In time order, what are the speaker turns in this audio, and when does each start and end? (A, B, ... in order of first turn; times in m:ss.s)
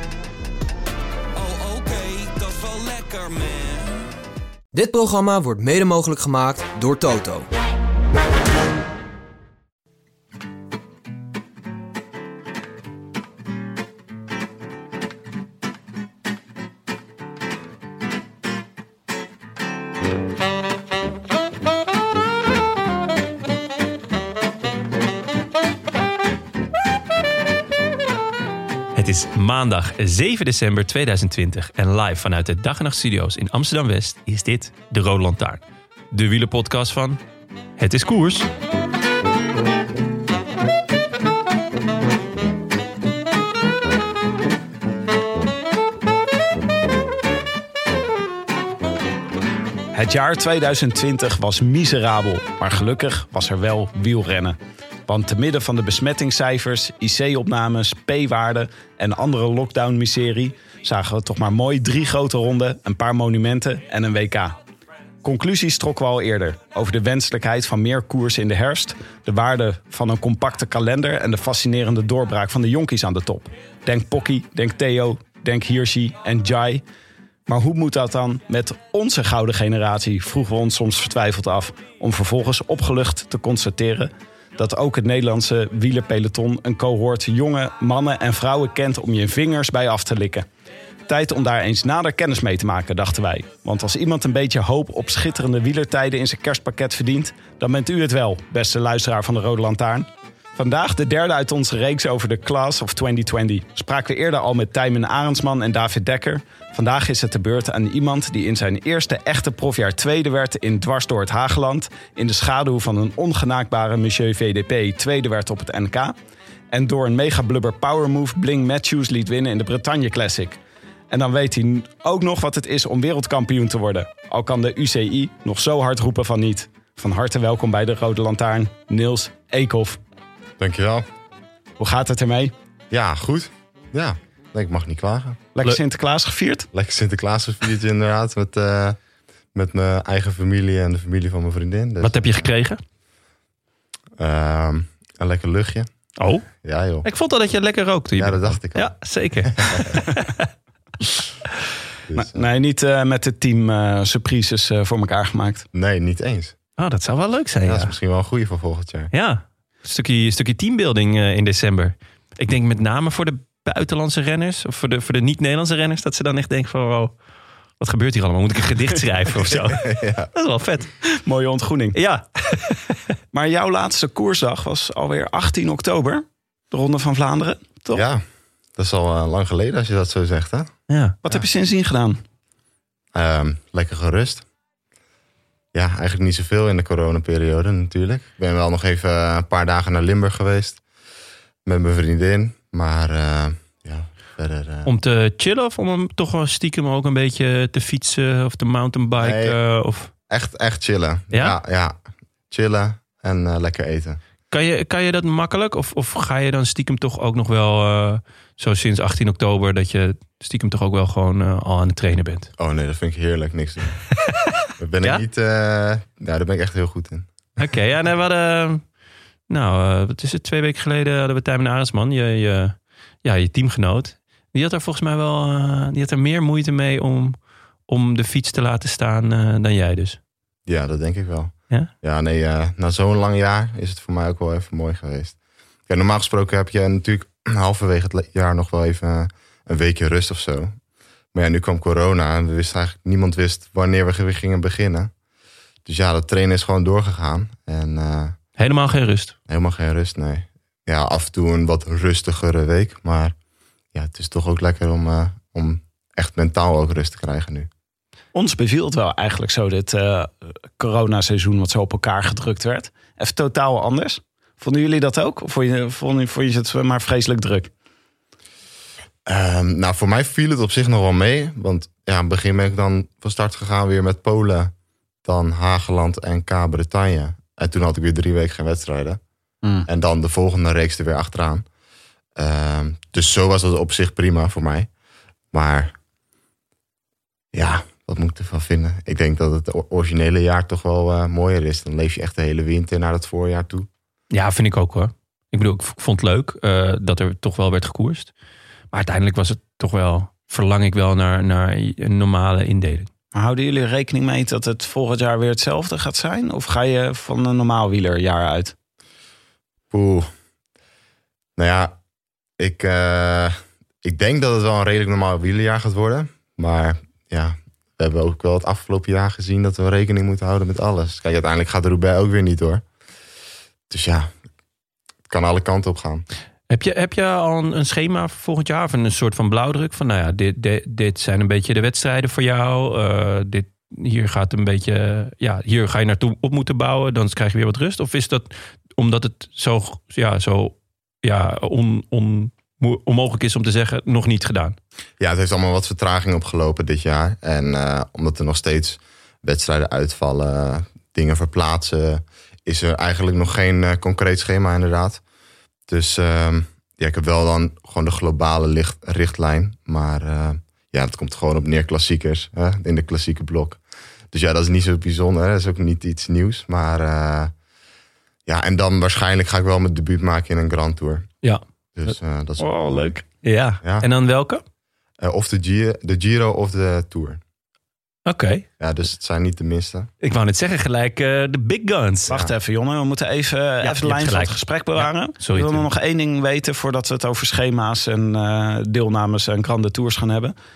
0:01.3-0:04.1 A
0:04.7-0:07.5 B
0:28.9-0:37.2 C
0:37.8-0:38.5 C
0:49.9-1:04.6 D
1:05.2-1:16.8 D
1:17.5-1:30.5 D
1:31.1-1:56.2 D
1:56.7-2:10.0 D
2:10.6-2:11.0 E
2:11.8-2:12.5 D
2:12.9-2:15.4 E
2:15.5-2:16.7 D
2:16.7-2:19.0 E
2:19.5-2:22.5 E
2:22.0-2:22.8 C
2:24.2-2:25.9 E
2:26.2-2:26.5 C
2:26.5-2:27.1 E
2:27.0-2:30.4 C
2:28.2-2:30.0 E
2:32.1-2:32.5 E
2:32.1-2:35.6 D
2:35.7-2:36.5 E
2:36.8-2:37.9 C
2:37.6-2:39.1 E
2:39.1-2:47.1 C
2:47.8-2:50.9 C
2:49.4-2:50.3 E
2:51.0-2:52.0 D
2:51.9-2:53.0 C
2:53.3-2:58.0 D
2:57.9-2:58.2 E
2:58.8-3:00.7 E
3:00.9-3:01.2 C
3:01.2-3:02.2 D
3:03.1-3:04.4 E
3:05.7-3:10.8 E
3:11.6-3:14.9 E
3:14.8-3:20.1 C
3:19.2-3:19.6 E
3:20.3-3:22.0 E
3:22.5-3:24.2 E
3:24.5-3:32.5 C
3:32.6-3:34.0 E
3:34.3-3:35.2 C
3:34.8-3:37.3 E
3:37.6-3:38.8 C
3:39.5-3:47.3 C
3:47.9-3:50.2 C
3:50.7-3:55.4 E
3:55.9-4:00.7 E
4:01.3-4:05.1 E
4:05.8-4:08.4 E
4:08.6-4:09.3 C
4:09.5-4:13.3 E
4:13.9-4:17.7 E
4:18.3-4:27.7 D
4:29.2-4:34.7 E
4:35.2-4:39.2 E
4:39.8-4:41.6 E
4:42.4-4:44.9 E
4:45.5-4:45.9 E
4:47.5-4:53.9 E
4:54.3-4:58.3 C
4:58.9-5:03.1 C
5:03.3-5:08.7 D
5:09.9-5:10.3 E
5:11.6-5:12.0 E
5:12.6-5:22.8 E
5:23.9-5:24.3 E
5:25.3-5:26.2 E
5:26.7-5:44.8 C
5:45.2-5:55.2 E
5:55.9-6:03.8 E
6:04.3-6:07.5 E
6:08.4-6:11.3 E
6:12.0-6:13.1 E
6:12.6-6:13.2 D
6:13.4-6:14.6 C
6:13.8-6:14.1 E
6:15.2-6:17.4 E
6:18.2-6:18.6 C
6:18.8-6:20.1 E
6:20.2-6:22.3 C
6:22.3-6:30.5 D
6:23.8-6:25.8 C